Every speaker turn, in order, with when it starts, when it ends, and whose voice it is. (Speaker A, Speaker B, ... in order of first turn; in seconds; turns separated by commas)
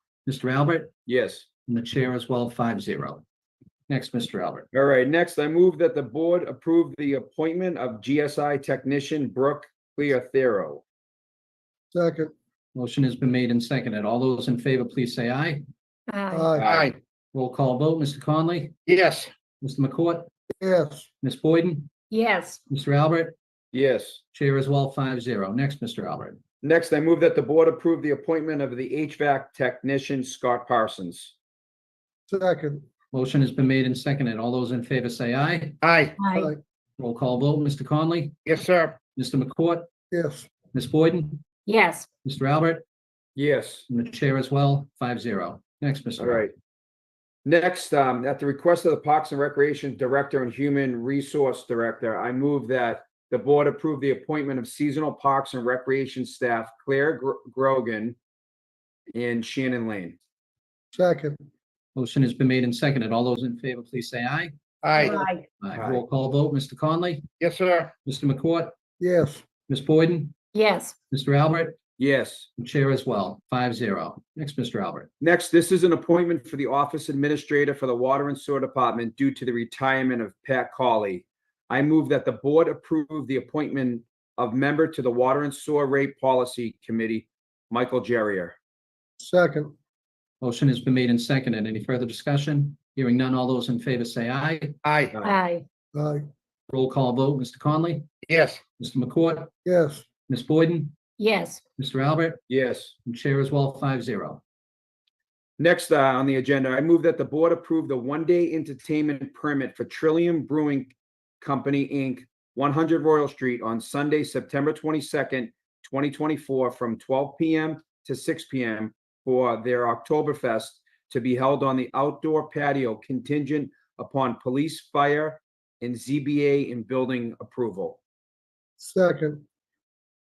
Speaker A: 0.2-0.9, Speaker B: 1.1-1.5, Speaker A: 1.6-3.2, Speaker A: 3.9-4.7, Speaker B: 4.7-10.8, Speaker C: 11.9-12.3, Speaker A: 12.7-15.6, Speaker D: 16.1-16.6, Speaker C: 16.3-16.8, Speaker B: 16.6-16.9, Speaker E: 16.6-16.9, Speaker A: 17.3-18.7, Speaker E: 18.9-19.3, Speaker A: 19.6-20.3, Speaker C: 20.6-21.1, Speaker A: 21.2-21.9, Speaker D: 22.1-22.6, Speaker A: 22.7-23.3, Speaker B: 23.7-24.2, Speaker A: 24.3-26.4, Speaker B: 26.6-31.3, Speaker C: 32.3-32.8, Speaker A: 33.1-35.8, Speaker E: 35.8-36.2, Speaker D: 36.2-36.5, Speaker A: 37.0-38.4, Speaker E: 38.5-39.0, Speaker A: 39.1-39.9, Speaker C: 40.1-40.5, Speaker A: 40.7-41.4, Speaker D: 41.6-42.1, Speaker A: 42.2-42.8, Speaker B: 43.4-43.9, Speaker A: 43.9-46.5, Speaker B: 46.2-46.5, Speaker B: 47.4-58.2, Speaker B: 59.1-60.1, Speaker C: 60.9-61.4, Speaker A: 61.9-64.5, Speaker E: 64.8-65.3, Speaker D: 64.9-65.5, Speaker A: 65.6-67.3, Speaker B: 65.7-66.0, Speaker E: 67.4-67.9, Speaker A: 68.0-68.7, Speaker C: 69.0-69.4, Speaker A: 69.7-70.3, Speaker D: 70.5-71.0, Speaker A: 71.1-71.8, Speaker B: 72.0-72.5, Speaker A: 72.6-75.1, Speaker B: 75.2-88.5, Speaker C: 89.2-89.7, Speaker A: 90.4-94.7, Speaker E: 94.8-95.2, Speaker D: 95.2-95.6, Speaker C: 95.9-96.3, Speaker A: 96.7-98.1, Speaker E: 98.2-98.6, Speaker A: 98.8-99.5, Speaker C: 99.6-100.0, Speaker A: 100.3-100.9, Speaker D: 101.2-101.6, Speaker A: 101.8-102.4, Speaker B: 102.5-102.9, Speaker A: 103.0-104.4, Speaker B: 105.6-128.0, Speaker C: 128.8-129.4